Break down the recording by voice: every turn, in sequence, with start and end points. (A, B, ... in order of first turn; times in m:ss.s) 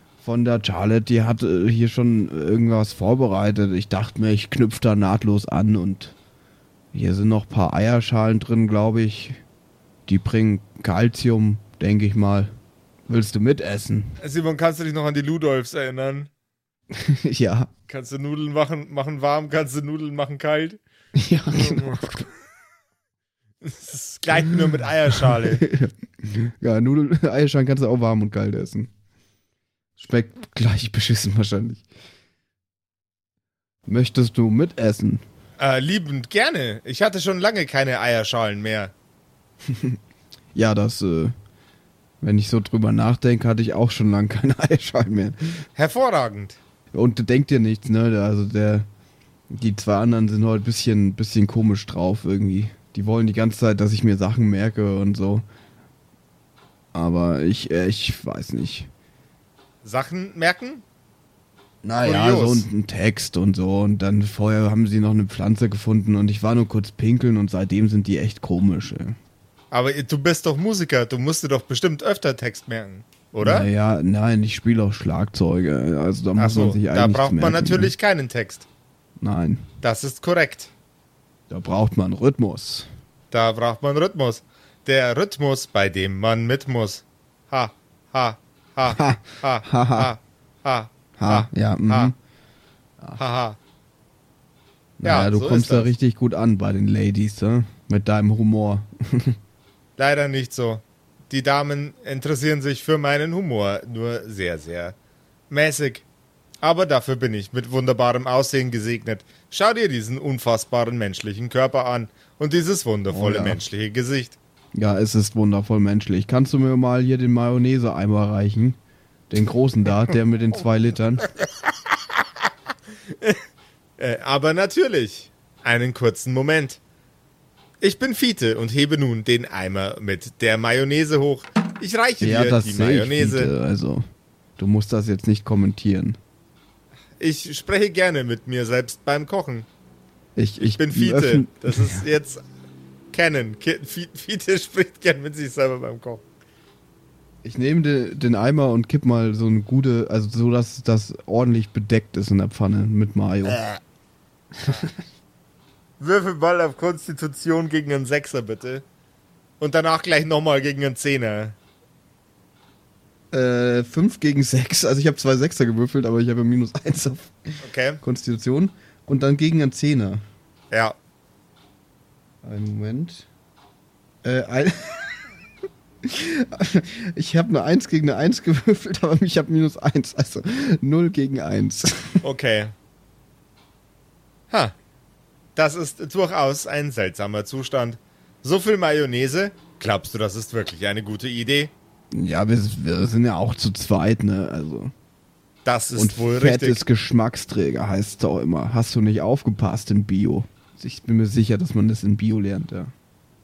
0:00.2-0:06.1 A
0:06.9-0:09.4 A
0:10.1-0:12.5 A
0:13.1-0:14.2 A
0:14.2-0:16.3 B
0:16.9-0:17.7 A
0:17.9-0:20.8 B
0:21.2-0:22.2 A
0:21.5-0:22.2 B
0:23.6-0:25.6 B
0:24.3-0:24.7 A
0:25.2-0:28.9 A
0:30.0-0:31.8 A
0:33.9-0:35.2 A
0:35.6-0:38.9 B
0:39.7-0:40.0 A
0:40.5-0:41.3 A
0:42.2-0:45.6 A
0:45.8-0:46.6 B
0:46.9-0:48.9 A
0:49.5-0:55.4 A
0:56.9-0:58.9 A
0:59.8-1:00.8 B
1:01.8-1:09.2 A
1:02.0-1:02.6 B
1:09.7-1:13.7 B
1:13.4-1:17.9 A
1:16.4-1:18.6 B
1:19.2-1:19.6 A
1:19.8-1:20.7 B
1:21.5-1:22.9 A
1:23.3-1:32.1 B
1:28.9-1:30.1 A
1:31.2-1:32.1 A
1:33.2-1:33.6 B
1:35.0-1:39.4 A
1:35.0-1:35.9 B
1:40.0-1:44.9 B
1:45.5-1:46.0 B
1:46.6-1:54.4 B
1:53.1-1:53.6 A
1:54.7-1:58.8 A
1:59.3-2:01.3 A
2:04.0-2:06.8 B
2:07.8-2:13.5 B
2:12.2-2:14.0 A
2:14.6-2:16.2 A
2:17.2-2:19.7 B
2:20.4-2:22.0 A
2:20.7-2:22.4 B
2:23.1-2:26.2 B
2:27.4-2:33.6 A
2:33.5-2:33.8 B
2:34.6-2:34.9 A
2:36.0-2:38.8 B
2:39.6-2:41.6 B
2:43.3-2:50.2 A
2:47.6-2:48.0 B
2:52.4-2:53.3 A
2:54.2-2:55.2 A
2:56.0-3:02.2 A
3:02.2-3:02.7 B
3:04.5-3:04.7 B
3:05.6-3:11.7 B
3:12.1-3:14.9 A
3:15.6-3:16.8 B
3:15.9-3:22.9 A